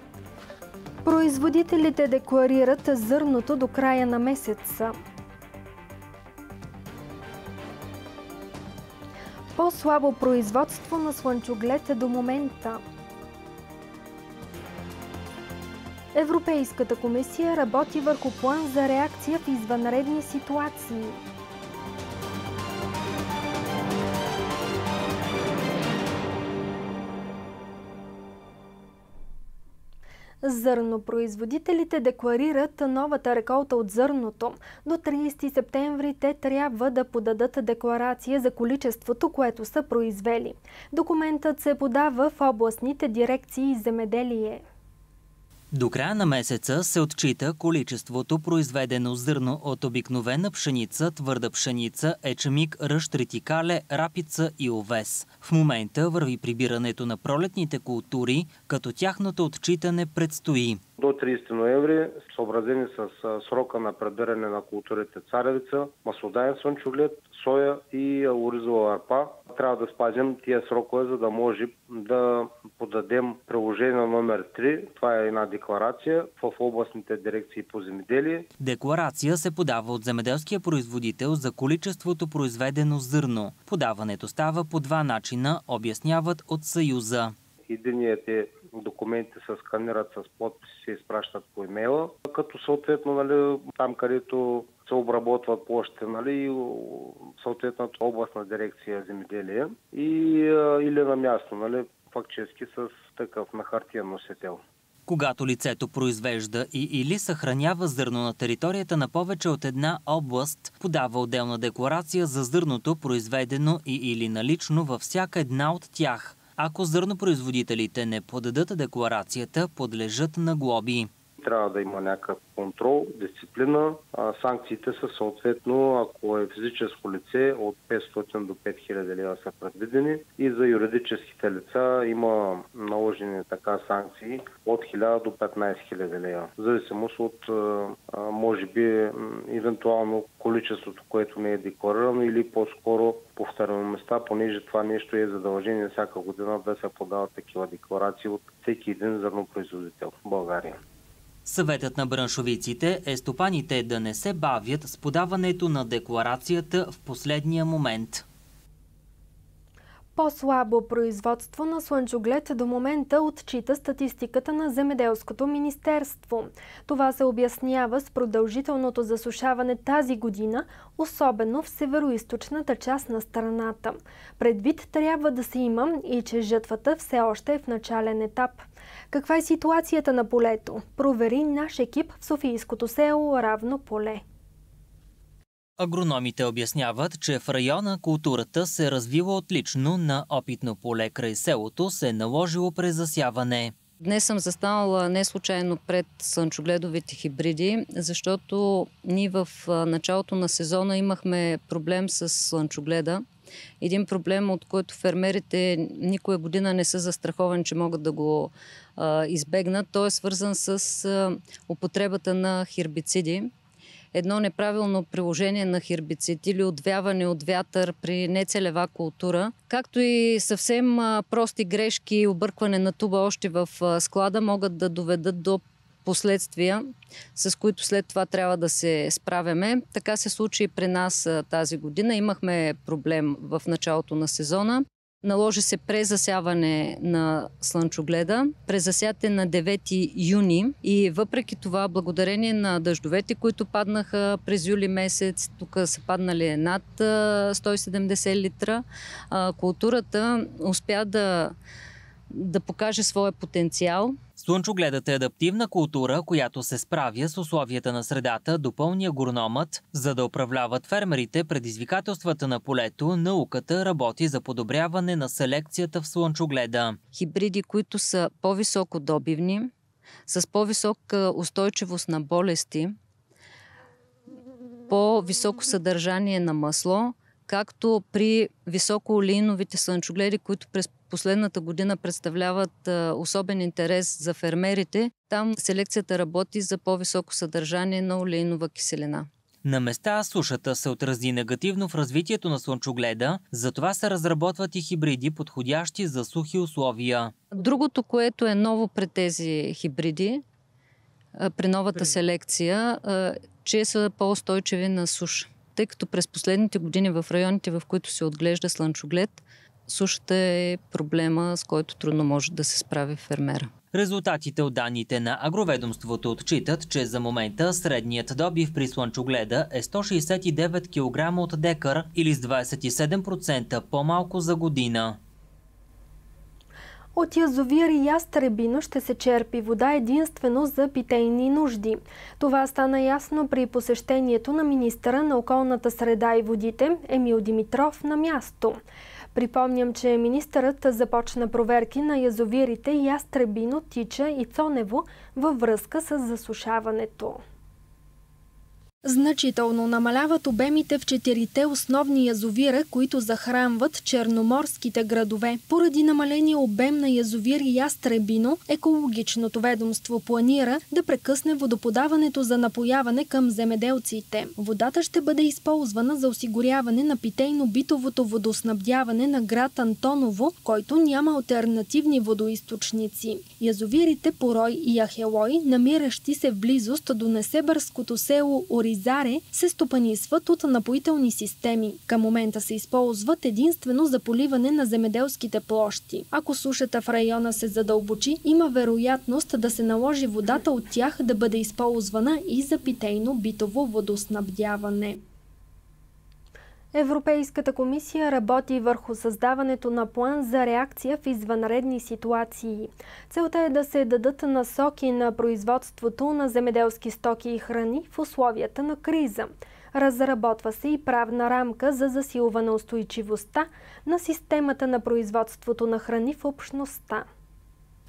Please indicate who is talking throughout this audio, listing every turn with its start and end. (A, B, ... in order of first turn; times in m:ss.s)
0:01.0-0:04.9 A
0:09.6-0:12.8 A
0:16.1-0:21.2 A
0:30.4-0:44.6 A
0:45.7-1:00.8 B
1:01.0-1:18.5 C
1:18.6-1:27.3 B
1:27.7-1:44.6 C
1:45.1-2:01.1 B
2:01.4-2:30.8 C
2:31.4-2:38.2 B
2:40.2-3:04.2 A
3:05.8-3:13.8 B
3:14.0-3:23.2 D
3:23.8-3:33.5 D
3:34.1-4:11.6 D
4:12.3-4:14.2 D
4:14.4-4:27.0 B
4:27.1-4:29.7 D
4:30.3-4:33.0 D
4:34.9-4:49.3 D
4:49.6-4:57.4 B
4:57.5-5:00.4 D
5:01.4-5:13.7 D
5:13.9-5:25.2 B
5:27.1-5:38.8 A
5:39.3-5:47.4 A
5:49.0-6:35.2 A
6:36.9-6:57.3 A